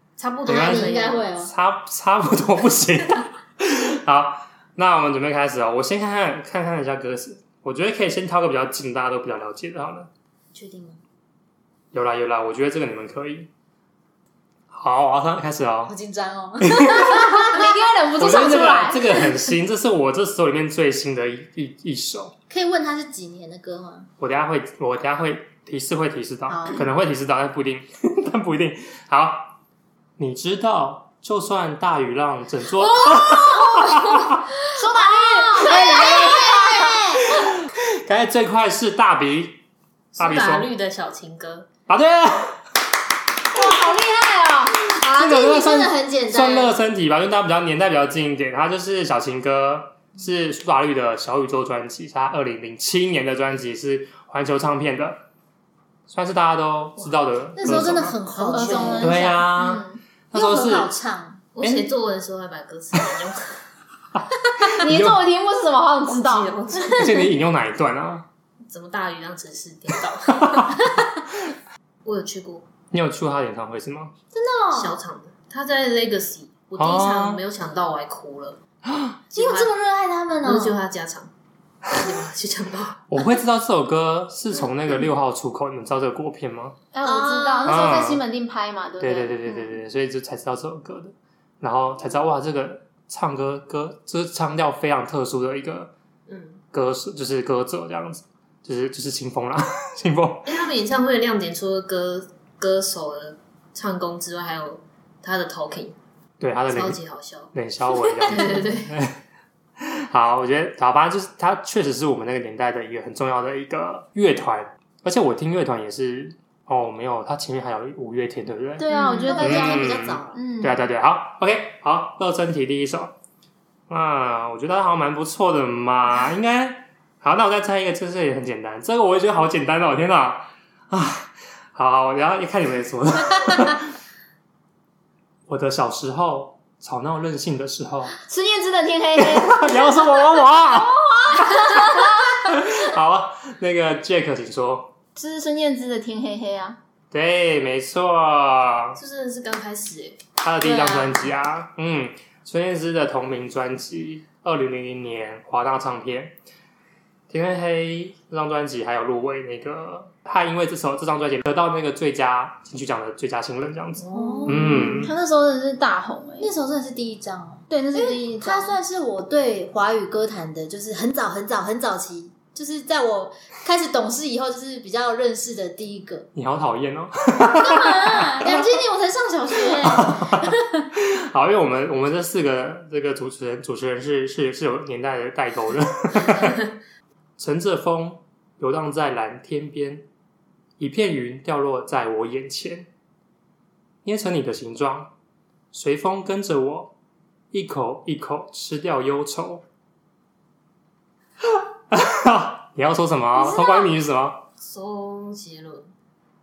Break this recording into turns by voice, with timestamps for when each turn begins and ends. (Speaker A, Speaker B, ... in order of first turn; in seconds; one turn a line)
Speaker A: 0.2-1.3
Speaker B: 0.4-10.1
Speaker C: 0.5-1.5
Speaker C: 10.5-11.0
Speaker B: 11.9-13.5
Speaker B: 14.7-15.9
Speaker C: 15.8-17.5
Speaker B: 16.6-17.6
Speaker D: 17.4-19.3
Speaker B: 18.2-22.3
Speaker C: 22.5-24.1
Speaker B: 24.2-29.6
Speaker C: 26.5-26.9
Speaker B: 30.2-34.5
Speaker C: 33.0-33.6
Speaker D: 34.7-37.0
Speaker C: 34.8-37.4
Speaker B: 37.4-39.6
Speaker A: 40.1-41.7
Speaker B: 40.1-40.7
Speaker B: 41.9-42.6
Speaker D: 43.5-44.8
Speaker B: 44.9-55.2
Speaker C: 45.0-46.8
Speaker B: 56.1-58.2
Speaker C: 57.6-59.5
Speaker D: 58.4-60.0
Speaker B: 58.8-60.9
Speaker C: 60.3-61.4
Speaker A: 61.5-63.6
Speaker B: 61.6-61.9
Speaker B: 64.1-65.2
Speaker D: 64.8-66.5
Speaker A: 66.1-67.4
Speaker B: 66.9-68.2
Speaker A: 68.7-70.9
Speaker B: 70.3-70.8
Speaker A: 72.0-72.6
Speaker B: 72.9-74.1
Speaker C: 74.3-74.9
Speaker A: 74.7-78.6
Speaker B: 76.8-77.4
Speaker B: 78.8-79.2
Speaker C: 79.3-80.8
Speaker A: 79.3-79.7
Speaker A: 80.4-81.3
Speaker A: 81.9-83.2
Speaker B: 83.1-86.7
Speaker D: 86.9-89.8
Speaker C: 87.0-87.9
Speaker B: 87.6-88.2
Speaker B: 89.0-95.9
Speaker A: 96.3-96.6
Speaker B: 96.7-100.5
Speaker A: 100.4-106.0
Speaker B: 106.4-107.0
Speaker A: 106.7-107.5
Speaker B: 107.5-109.2
Speaker A: 108.2-108.9
Speaker B: 109.8-123.1
Speaker D: 118.8-120.9
Speaker A: 118.9-119.2
Speaker C: 118.9-120.4
Speaker B: 123.9-133.9
Speaker B: 135.5-138.1
Speaker D: 138.2-142.1
Speaker B: 139.2-144.9
Speaker D: 145.2-146.8
Speaker B: 147.1-149.0
Speaker A: 148.9-150.2
Speaker B: 150.4-156.4
Speaker C: 150.6-151.3
Speaker B: 157.3-165.1
Speaker C: 164.0-165.1
Speaker D: 164.1-166.5
Speaker A: 164.2-164.6
Speaker C: 166.4-176.3
Speaker D: 167.7-168.8
Speaker B: 176.3-178.8
Speaker C: 177.5-180.8
Speaker B: 179.5-186.6
Speaker B: 187.4-190.1
Speaker B: 190.8-192.9
Speaker B: 194.0-195.1
Speaker B: 195.7-196.9
Speaker B: 197.5-199.6
Speaker B: 201.4-204.4
Speaker D: 203.4-203.9
Speaker A: 204.6-205.9